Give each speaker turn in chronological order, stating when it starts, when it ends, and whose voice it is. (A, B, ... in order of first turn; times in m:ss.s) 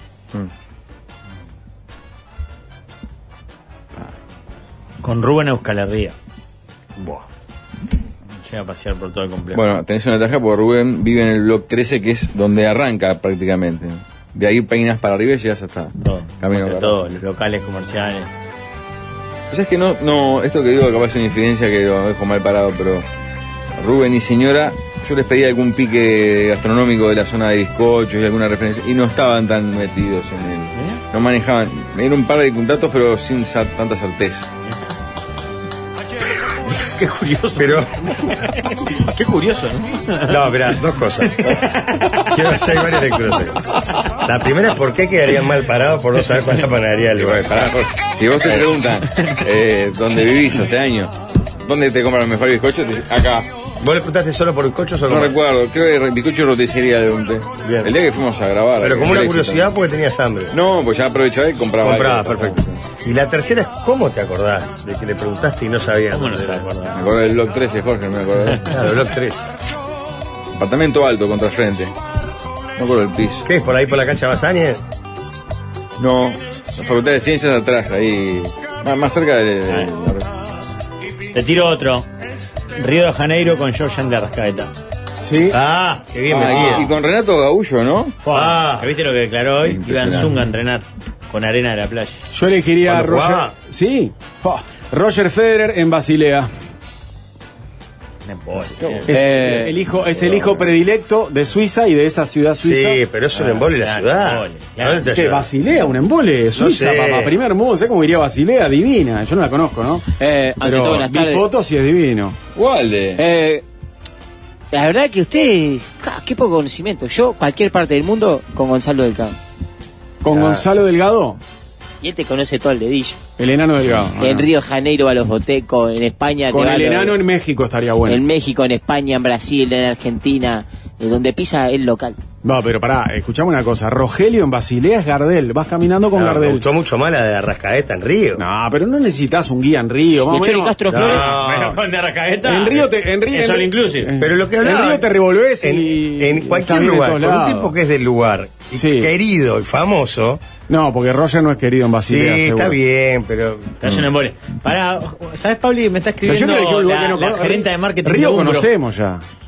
0:05.0-0:06.1 A
0:08.4-0:09.6 A
0:09.5-0:15.9 B
0:16.0-0:18.3 A
0:16.4-0:17.0 B
0:19.5-0:23.0 B
0:23.8-0:34.4 B
0:30.7-0:31.0 A
0:36.7-0:40.4 A
0:37.6-0:38.1 C
0:40.2-0:41.6 C
0:41.3-0:42.3 A
0:42.2-0:43.6 C
0:44.2-0:47.8 C
0:47.2-0:51.1 B
0:51.6-0:53.5 B
0:53.8-0:55.4 C
0:55.1-0:59.6 B
0:57.6-0:57.9 C
0:58.8-1:00.6 C
1:00.5-1:02.8 B
1:01.8-1:06.7 C
1:06.1-1:07.0 A
1:06.9-1:08.7 B
1:08.6-1:09.5 C
1:10.6-1:11.9 B
1:12.8-1:13.4 B
1:13.4-1:14.8 C
1:16.0-1:20.3 B
1:21.3-1:22.1 A
1:22.7-1:24.7 A
1:25.3-1:26.9 C
1:26.3-1:28.1 B
1:28.2-1:32.2 A
1:28.3-1:28.9 C
1:29.7-1:30.3 B
1:32.3-1:36.5 D
1:32.8-1:33.5 C
1:38.2-1:39.2 A
1:39.1-1:43.0 D
1:39.1-1:39.7 E
1:42.6-1:45.5 C
1:43.4-1:45.0 A
1:45.1-1:52.4 D
1:46.5-1:47.4 C
1:50.2-1:51.5 E
1:52.6-1:53.2 B
1:53.2-1:53.6 E
1:54.7-1:59.4 E
2:00.2-2:01.4 D
2:02.0-2:03.2 E
2:03.4-2:04.5 D
2:04.2-2:07.2 E
2:06.5-2:08.2 D
2:08.0-2:12.2 E
2:12.4-2:16.6 D
2:16.1-2:18.4 C
2:18.4-2:20.8 D
2:20.2-2:21.4 E
2:20.9-2:21.8 C
2:21.0-2:24.1 A
2:22.4-2:27.7 D
2:24.2-2:25.1 C
2:25.6-2:30.4 C
2:28.7-2:29.1 D
2:30.7-2:32.8 D
2:32.0-2:33.8 C
2:33.8-2:38.7 A
2:36.2-2:39.2 D